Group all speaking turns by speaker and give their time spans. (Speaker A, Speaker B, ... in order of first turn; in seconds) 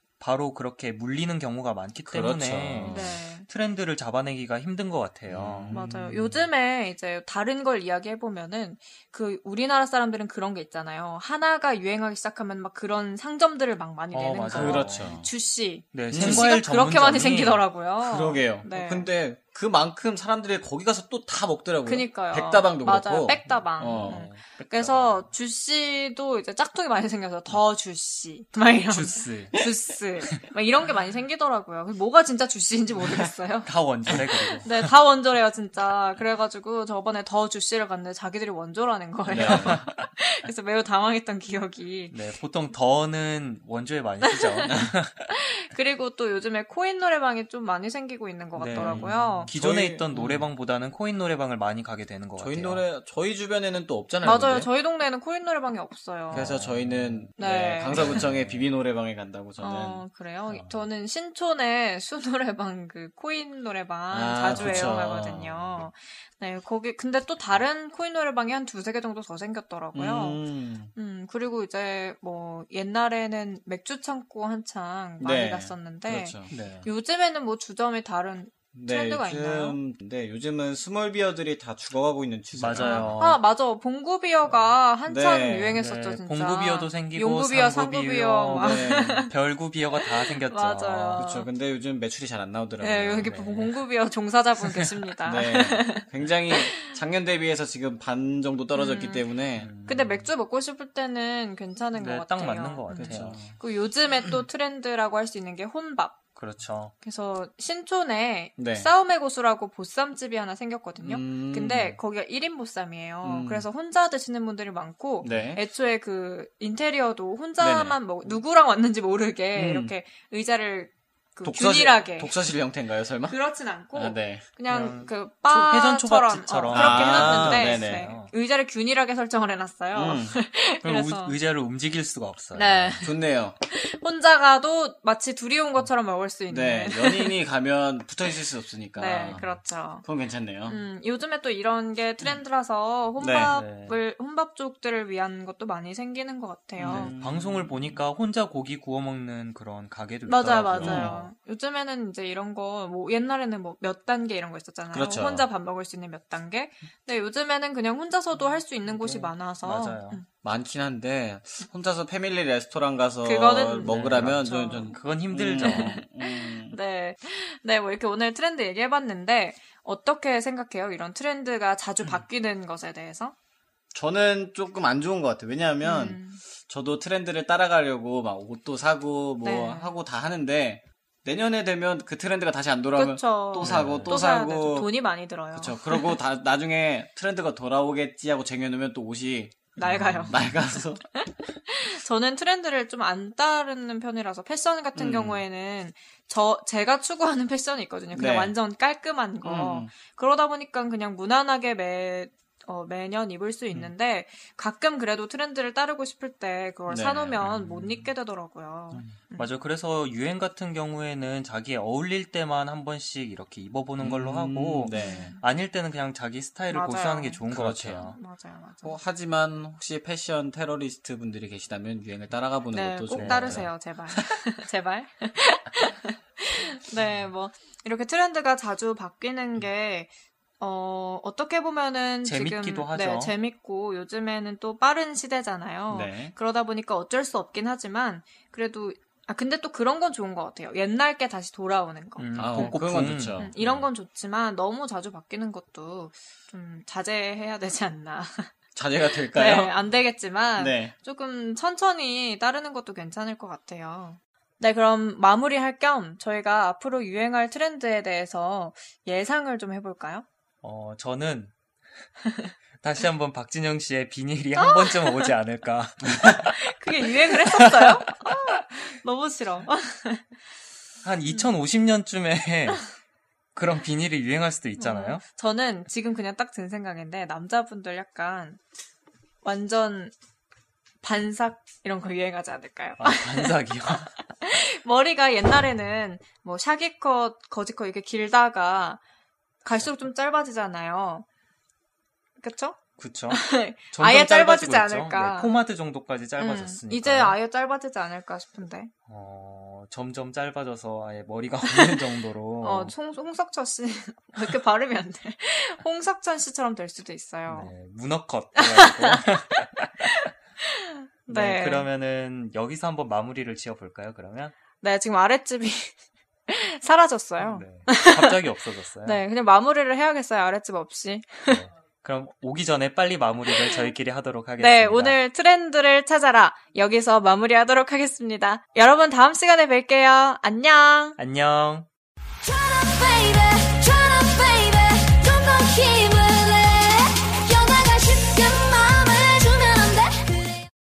Speaker A: 0.2-5.8, 14.1-15.2, 15.9-17.6, 23.4-25.2, 28.9-29.6, 33.6-34.9, 39.4-40.0, 42.1-45.3, 48.6-52.8, 56.3-56.6, 58.0-58.3, 76.5-76.9, 82.5-83.4, 85.7-91.2, 93.2-93.7, 99.6-100.2, 102.0-103.4, 106.4-106.9, 124.7-128.3, 130.8-133.0, 143.4-144.0, 146.9-151.3, 158.9-160.2, 163.8-166.0, 183.6-184.2, 189.8-190.3, 209.3-218.2, 223.1-223.7, 232.2-233.3, 242.2-243.7, 260.6-261.5, 262.8-266.6, 267.3-268.3, 271.0-272.9, 273.5-275.2, 283.0-284.1, 293.0-297.4, 299.1-302.9, 307.5-310.1, 311.3-314.5, 317.4-319.2, 321.5-325.2, 331.2-331.9
Speaker B: 2.0-3.1, 5.3-6.3, 14.5-15.3, 16.1-16.5, 18.0-24.2, 39.2-39.8, 48.7-50.5, 52.4-54.7, 56.3-60.7, 64.1-65.8, 69.9-70.9, 75.2-76.5, 78.7-83.1, 85.1-85.8, 88.5-89.3, 91.2-93.4, 95.2-99.7, 103.0-103.5, 108.6-108.9, 111.0-112.0, 113.2-113.7, 115.2-115.6, 117.6-118.0, 119.5-119.9, 121.4-123.4, 123.9-124.4, 126.7-128.1, 129.9-130.4, 133.0-133.6, 136.5-140.8, 143.2-143.6, 146.8-148.0, 150.8-151.2, 154.9-155.5, 160.4-166.8, 173.9-184.9, 185.5-191.0, 194.9-195.4, 198.1-198.6, 199.4-199.9, 206.9-208.0, 214.0-215.3, 217.5-218.1, 218.8-224.3, 235.9-236.3, 242.4-243.6, 248.7-249.8, 250.6-250.9
Speaker C: 2.8-3.5, 5.7-19.1, 21.9-33.7, 34.6-42.2, 44.2-49.5, 54.2-56.5, 57.4-58.2, 59.6-70.4, 70.9-79.8, 82.8-89.3, 90.2-91.5, 92.8-97.0, 98.7-99.2, 99.8-106.2, 107.0-122.4, 123.3-131.3, 132.5-137.3, 138.9-140.1, 140.7-147.1, 150.3-160.2, 163.2-165.0, 165.6-173.3, 175.8-176.4, 179.4-179.9, 182.9-186.2, 189.8-190.6, 191.1-209.5, 214.9-215.4, 216.7-217.4, 218.0-219.0, 222.7-248.5, 249.2-260.2, 262.2-262.5, 264.6-265.3, 266.4-270.2, 274.8-278.6, 279.4-280.1, 281.0-289.0, 289.6-291.2, 292.4-292.8, 293.3-295.5, 296.4-298.9, 301.7-302.1, 302.6-307.7, 308.6-309.2, 310.0-311.9, 314.8-316.0, 316.5-318.4, 319.0-321.6, 323.5-323.9, 324.6-331.2
Speaker D: 332.4-340.6